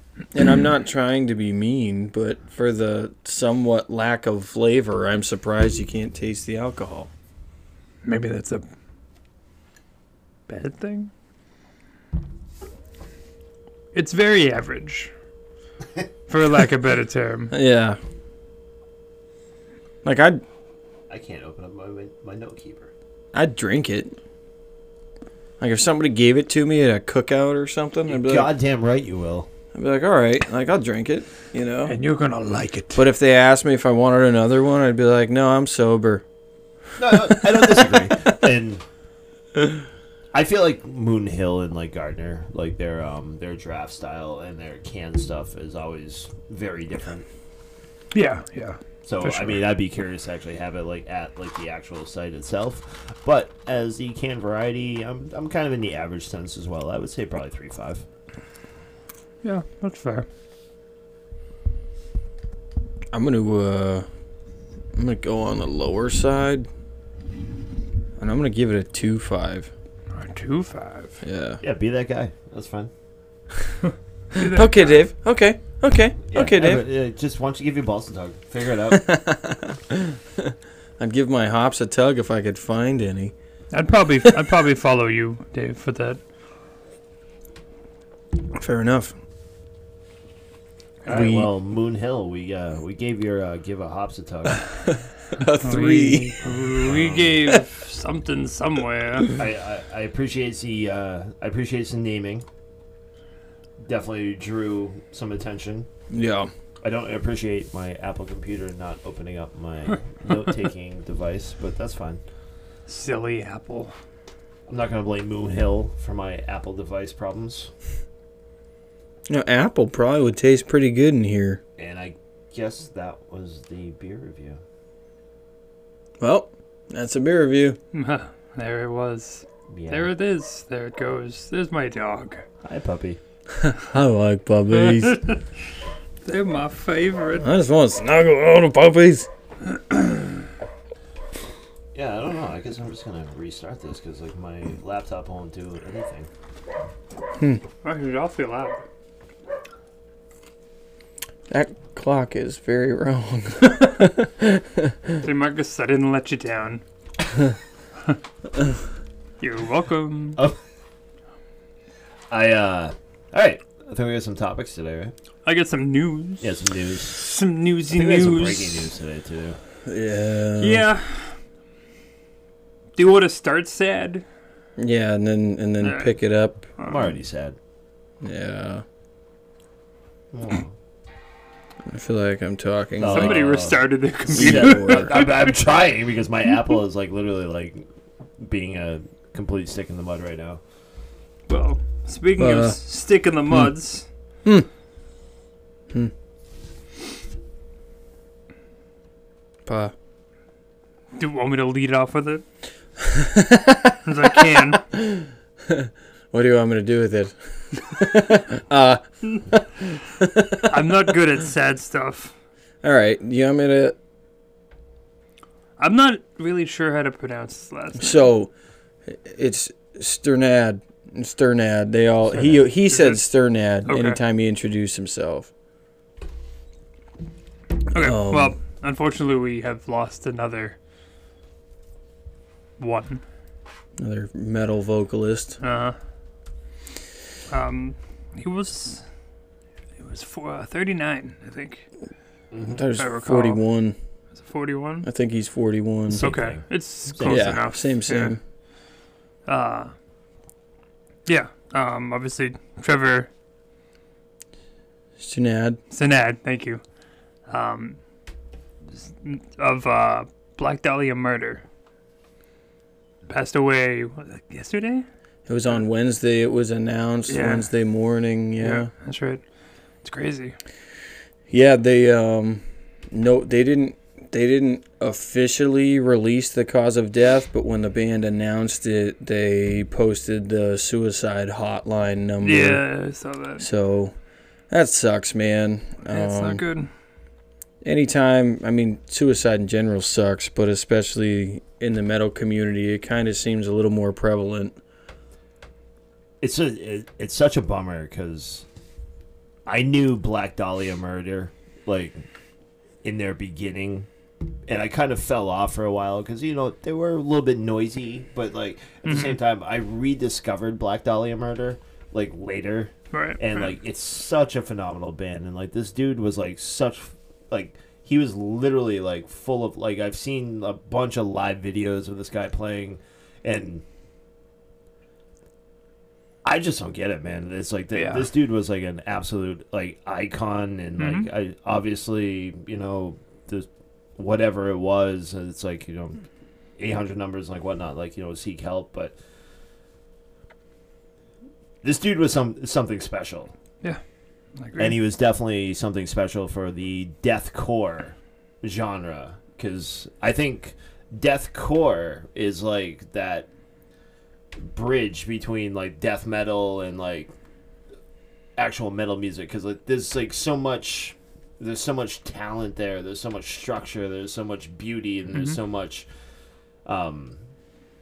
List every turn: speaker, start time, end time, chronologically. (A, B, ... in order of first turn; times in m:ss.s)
0:00.3-0:07.1 A
0:08.0-0:08.6 B
0:10.5-0:11.1 B
0:13.9-0:15.1 B
0:16.3-0:17.5 B
0:17.5-0:18.0 A
0:20.0-0:20.4 A
0:21.1-0:22.9 C
0:23.3-0:24.2 A
0:25.6-0:28.5 A
0:28.1-0:29.5 C
0:29.7-0:32.0 A
0:31.9-0:33.0 B
0:33.0-0:36.2 A
0:37.0-0:38.8 C
0:37.3-0:38.1 A
0:40.3-0:47.3 C
0:48.1-0:49.6 B
0:49.0-0:58.0 C
0:59.4-1:00.3 B
1:03.1-1:04.1 A
1:05.0-1:06.7 A
1:08.2-1:09.7 A
1:10.1-1:11.2 B
1:11.2-1:11.6 A
1:11.6-1:12.9 C
1:14.3-1:15.0 B
1:14.4-1:16.9 A
1:16.3-1:19.1 C
1:18.9-1:23.3 A
1:23.7-1:26.2 B
1:28.5-1:29.1 A
1:31.1-1:31.5 A
1:31.1-1:34.6 C
1:34.9-1:36.4 A
1:35.6-1:39.4 B
1:36.5-1:37.5 C
1:39.4-1:42.4 C
1:43.8-1:45.9 C
1:46.1-1:46.5 A
1:46.8-1:52.2 C
1:52.9-1:53.9 B
1:54.7-1:57.7 C
1:59.3-2:01.6 A
2:01.8-2:04.6 C
2:06.2-2:07.8 A
2:07.9-2:12.4 B
2:09.7-2:10.1 C
2:12.6-2:13.2 C
2:13.5-2:15.2 A
2:14.8-2:15.4 B
2:16.2-2:17.5 B
2:17.4-2:19.3 A
2:22.0-2:26.3 C
2:27.8-2:28.8 B
2:31.5-2:35.2 A
2:35.2-2:36.8 B
2:39.4-2:40.4 B
2:42.3-2:45.1 C
2:45.4-2:46.6 B
2:46.4-2:47.2 C
2:47.1-2:48.9 B
2:47.9-2:49.6 C
2:49.8-2:50.9 A
2:50.6-2:51.4 B
2:53.0-2:54.2 B
2:54.8-2:56.7 A
2:55.8-2:56.1 B
2:56.8-2:57.1 B
2:56.8-2:57.6 C
2:58.2-2:58.8 A
3:00.3-3:00.7 C
3:01.9-3:03.4 A
3:03.0-3:07.9 C
3:03.1-3:05.5 B
3:04.3-3:05.2 A
3:08.4-3:10.6 C
3:11.5-3:14.1 B
3:12.4-3:12.8 A
3:19.7-3:19.9 A
3:21.2-3:22.4 B
3:23.0-3:30.9 A
3:24.0-3:24.8 B
3:30.6-3:32.3 B
3:32.8-3:34.0 A
3:35.8-3:38.2 B
3:38.0-3:38.5 A
3:39.1-3:45.5 A
3:42.7-3:43.2 B
3:43.9-3:44.2 B
3:47.9-3:50.8 B
3:47.9-3:48.6 A
3:52.8-3:53.2 B
3:54.0-3:55.6 A
3:55.6-3:56.0 B
3:57.5-3:59.0 B
4:00.0-4:01.9 B
4:02.5-4:02.8 C
4:02.7-4:04.0 A
4:03.0-4:03.6 B
4:04.4-4:05.1 B
4:05.0-4:06.3 A
4:06.1-4:07.5 C
4:06.1-4:08.4 B
4:07.2-4:08.4 A
4:09.5-4:09.9 B
4:11.3-4:13.3 B
4:15.2-4:15.8 A
4:15.9-4:16.8 B
4:17.5-4:18.0 B
4:18.9-4:21.6 B
4:23.3-4:25.1 B
4:25.5-4:28.9 A
4:27.3-4:27.7 B
4:28.6-4:29.4 B
4:30.0-4:30.6 B
4:31.5-4:42.8 A
4:42.4-4:43.7 B
4:43.6-4:44.2 A
4:44.7-4:46.6 A
4:46.1-4:46.9 B
4:47.8-4:54.8 A
4:56.4-4:58.7 C
4:59.7-5:02.2 C
5:03.0-5:04.1 C
5:04.7-5:23.8 C
5:09.1-5:09.4 B
5:13.1-5:13.7 B
5:26.4-5:36.2 C
5:27.9-5:28.3 B
5:31.0-5:31.3 B
5:36.8-5:39.2 C
5:41.8-5:43.5 C
5:44.6-5:45.0 B
5:44.8-5:53.5 C
5:54.6-5:57.3 C
5:58.6-6:06.1 C
6:06.8-6:07.4 C